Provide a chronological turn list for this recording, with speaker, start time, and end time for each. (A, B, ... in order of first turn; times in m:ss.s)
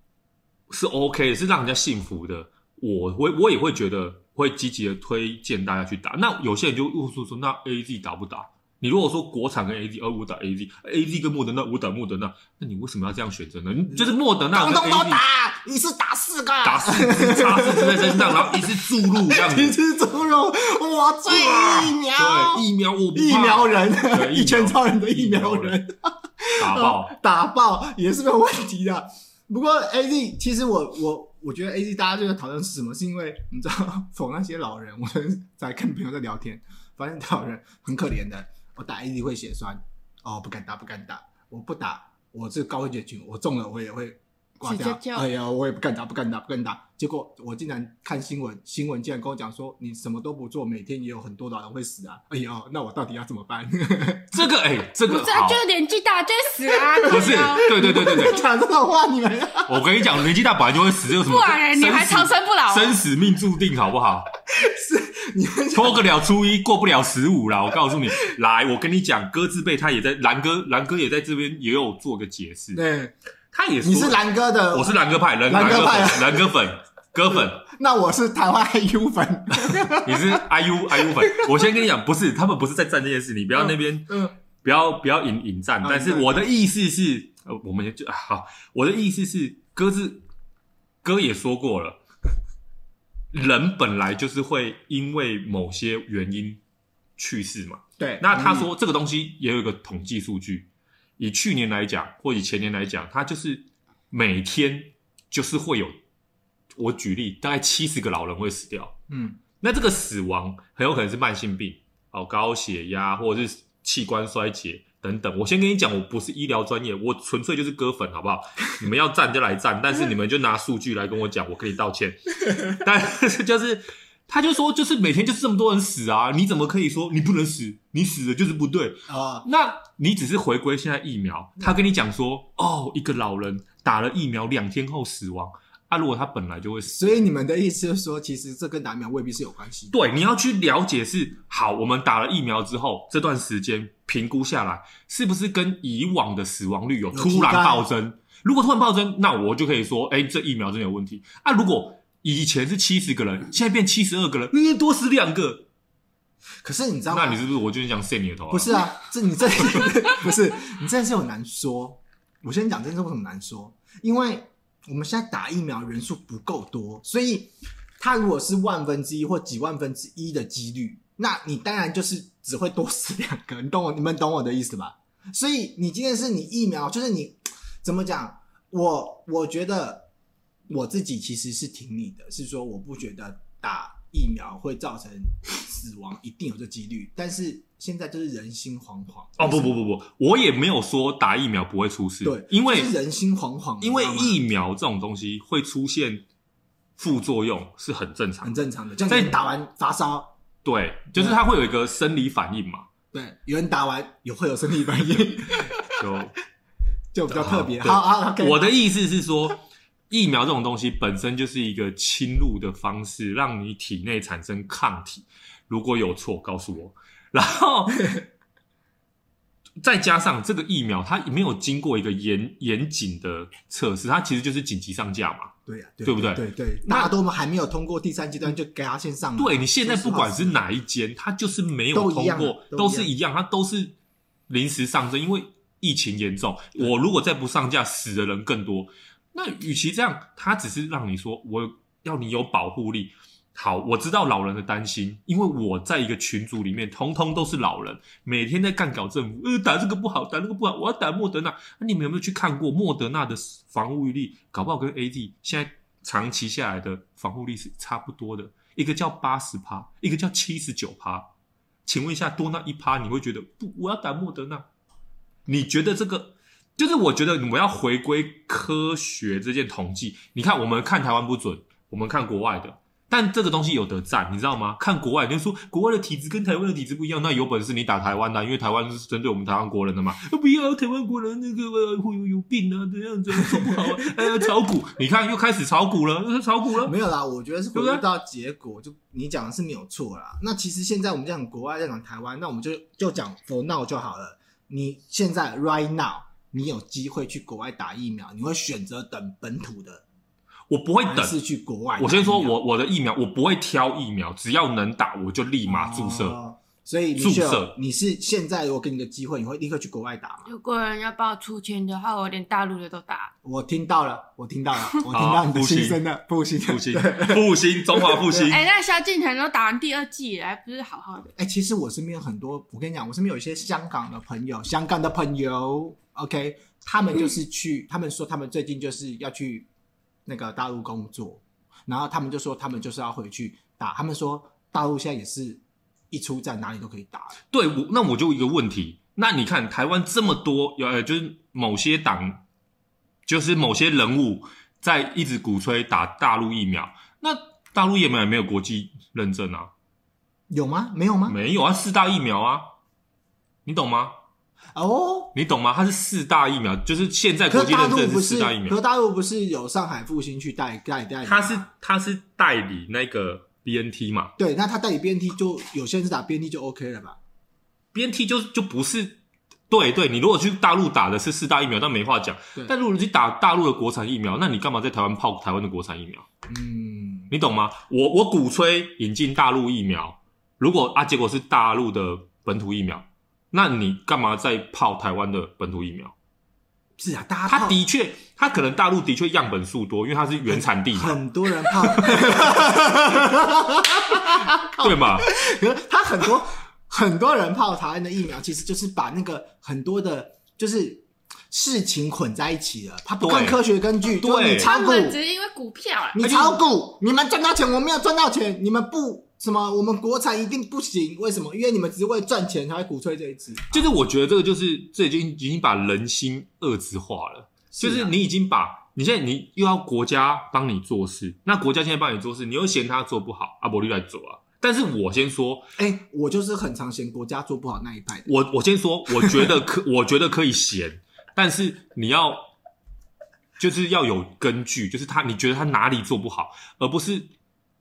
0:00.7-0:15.2 A
0:14.0-0:54.4 B
0:16.6-0:19.8 A
0:21.3-0:25.8 A
0:26.6-0:27.1 A
0:44.6-0:45.2 C
0:54.3-0:55.6 A
0:55.1-0:58.3 C
0:57.0-0:59.8 B
0:57.1-0:58.4 A
0:59.7-1:04.3 A
1:01.2-1:03.0 C
1:04.5-1:06.0 B
1:05.7-1:12.8 A
1:12.7-1:13.1 B
1:13.5-1:17.6 A
1:13.8-1:16.6 B
1:17.6-1:20.4 B
1:20.0-1:30.2 A
1:23.6-1:24.3 B
1:25.8-1:26.5 B
1:31.0-1:32.0 A
1:33.3-1:36.6 A
1:37.2-1:46.0 A
1:38.0-1:38.7 B
1:46.8-1:49.0 A
1:49.1-1:49.4 B
1:49.6-2:17.2 A
2:09.1-2:09.5 B
2:16.9-2:20.0 B
2:19.9-2:35.7 A
2:27.1-2:27.9 B
2:36.6-2:37.4 B
2:37.1-2:38.9 A
2:38.5-3:00.1 B
3:00.7-3:09.8 B
3:09.4-3:12.9 A
3:12.2-3:14.4 B
3:13.8-3:16.2 A
3:17.0-3:19.4 A
3:18.4-3:20.3 B
3:20.6-3:22.9 A
3:21.2-3:21.4 B
3:23.1-3:25.9 B
3:25.9-3:26.3 A
3:27.1-3:28.7 B
3:27.3-3:38.1 A
3:39.8-3:45.5 A
3:45.7-3:50.6 B
3:46.0-3:47.1 A
3:49.4-3:54.0 A
3:51.9-3:53.1 B
3:54.5-4:21.3 A
4:21.8-4:24.7 A
4:25.5-4:47.0 A
4:46.8-5:00.0 B
4:47.7-4:48.0 A
5:00.7-5:01.4 A
5:01.1-5:02.6 B
5:02.0-5:06.4 A
5:05.7-5:10.5 B
5:07.2-5:07.8 A
5:10.5-5:13.3 C
5:13.4-5:18.5 B
5:15.1-5:16.0 A
5:16.7-5:18.7 A
5:18.4-5:21.3 C
5:21.4-5:29.7 B
5:30.3-5:37.4 B
5:37.5-5:42.4 A
5:43.3-5:49.7 A
5:50.5-5:51.4 B
5:51.3-5:52.6 A
5:53.6-5:54.1 A
5:54.8-5:55.4 B
5:55.4-5:58.8 A
5:57.5-6:01.7 B
6:01.2-6:04.3 A
6:04.4-6:07.2 B
6:07.9-6:16.3 A
6:16.5-6:17.3 B
6:17.3-6:26.1 A
6:27.0-6:27.8 B
6:27.5-6:32.6 A
6:30.4-6:45.2 B
6:34.1-6:35.3 A
6:43.2-6:43.6 A
6:44.2-6:44.7 A
6:44.5-6:46.2 C
6:46.2-6:53.8 B
6:46.2-6:46.6 A
6:53.7-7:05.7 A
6:57.7-6:58.1 B
7:05.8-7:08.3 B
7:08.3-7:12.4 A
7:09.2-7:09.5 B
7:13.6-7:17.3 A